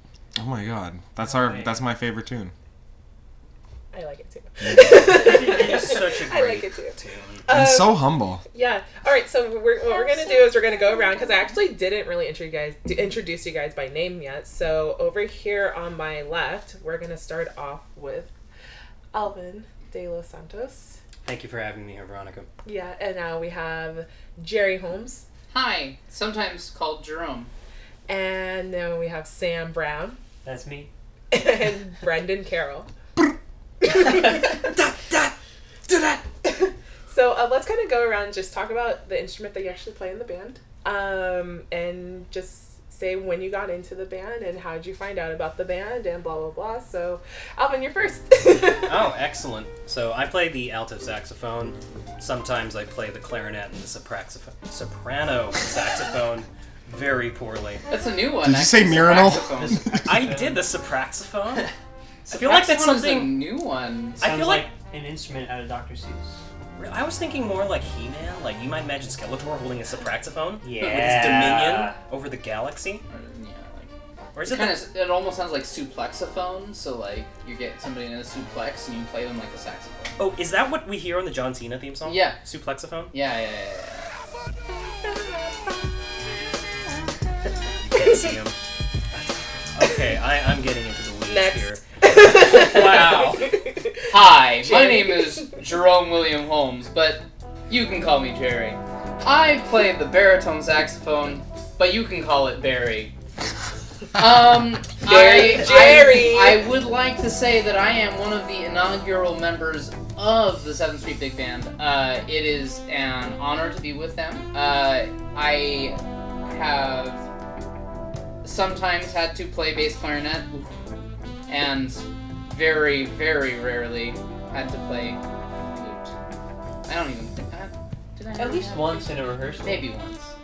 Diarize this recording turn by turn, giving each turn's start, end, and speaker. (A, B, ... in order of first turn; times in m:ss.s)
0:00.3-0:02.5 A
0:01.2-0:01.8 B
0:03.9-0:18.3 C
0:04.6-0:05.3 A
0:04.9-0:07.4 D
0:07.5-0:08.4 A
0:19.1-0:21.0 C
0:21.2-0:22.5 D
0:22.6-0:25.2 C
0:25.5-0:27.5 E
0:28.1-0:30.2 C
0:30.4-0:30.9 B
0:31.3-0:32.9 C
0:33.8-0:34.8 C
0:36.4-0:49.0 C
0:48.8-0:57.8 D
0:57.9-0:59.8 E
0:58.4-1:00.3 A
0:59.6-1:00.7 B
1:00.0-1:01.6 D
1:02.2-1:04.2 E
1:02.3-1:03.4 D
1:04.2-1:04.7 D
1:04.2-1:06.4 B
1:06.8-1:13.0 D
1:10.6-1:12.0 B
1:13.1-1:13.9 E
1:14.3-1:14.9 D
1:14.4-1:20.1 E
1:20.2-1:23.1 D
1:22.0-1:22.4 E
1:23.1-1:24.1 E
1:25.0-1:25.6 C
1:27.9-1:28.6 D
1:28.0-1:28.2 C
1:29.7-1:31.9 D
1:31.2-1:35.6 C
1:32.2-1:33.5 E
1:34.1-1:43.1 E
1:44.1-1:57.2 E
1:45.0-1:46.7 C
1:58.4-2:00.7 E
2:01.5-2:06.1 E
2:06.8-2:10.3 E
2:08.4-2:09.9 B